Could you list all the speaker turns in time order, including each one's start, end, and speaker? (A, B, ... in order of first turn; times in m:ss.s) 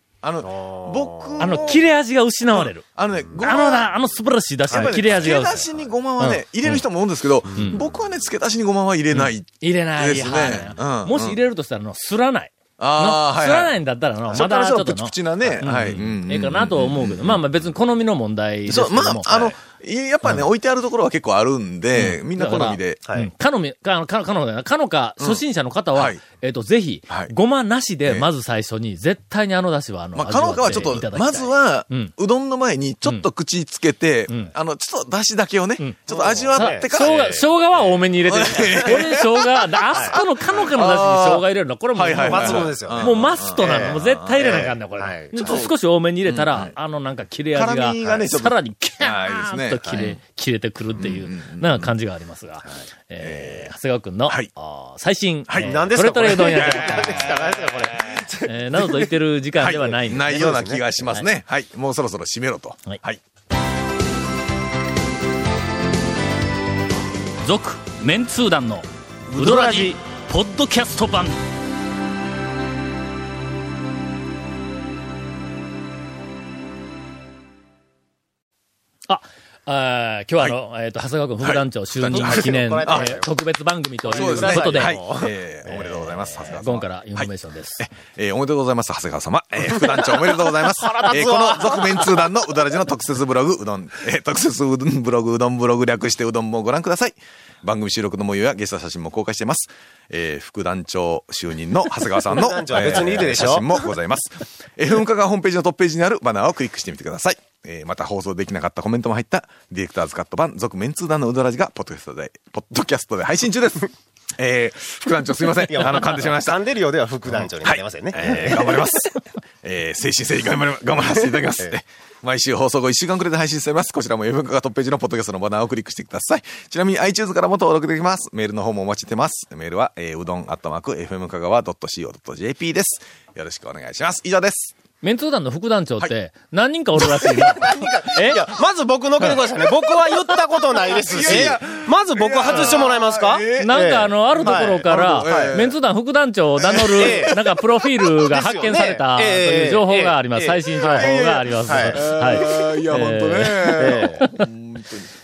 0:00.2-0:01.9 A
0:00.4-0:01.7 B
0:01.4-0:02.8 C
0:02.5-0:03.9 A
0:03.4-0:06.8 C
0:04.7-0:11.4 A
0:04.7-0:05.9 B
0:09.1-0:19.6 C
0:12.8-0:13.8 A
0:14.3-0:17.4 A
0:15.4-0:15.7 B
0:18.7-0:23.0 A
0:21.9-0:32.1 C
0:25.9-0:26.2 A
0:30.2-0:37.4 A
0:36.1-0:38.0 B
0:36.6-0:57.5 C
0:38.3-0:41.4 A
0:38.6-0:39.0 B
0:39.9-0:40.2 B
0:42.0-0:44.4 A
0:42.3-0:45.6 B
0:45.4-0:45.7 A
0:46.3-0:46.7 A
0:47.5-0:50.2 A
0:48.0-0:48.3 B
0:49.8-0:50.2 B
0:51.0-0:51.9 A
0:53.2-0:53.7 A
0:55.5-0:55.8 A
0:55.6-0:58.8 B
0:56.3-0:58.1 A
0:58.4-1:01.2 C
0:59.6-1:03.2 A
1:00.3-1:00.9 B
1:07.4-1:11.4 C
1:09.3-1:10.0 B
1:19.1-1:25.0 C
1:21.4-1:23.2 A
1:22.1-1:23.3 B
1:24.0-1:26.4 B
1:24.1-1:56.6 A
1:25.7-1:27.8 C
1:29.7-1:32.3 B
1:42.3-1:43.6 B
1:55.6-1:58.8 B
1:57.3-2:14.7 A
2:15.0-2:18.5 C
2:17.0-2:17.5 A
2:17.5-2:25.6 B
2:21.1-2:23.8 A
2:21.2-2:21.5 C
2:22.5-2:22.8 C
2:23.6-2:34.5 C
2:24.3-2:25.8 A
2:26.6-2:27.4 A
2:27.0-2:27.5 B
2:28.2-2:31.1 B
2:30.9-2:35.1 A
2:31.6-2:32.1 B
2:33.8-2:34.2 B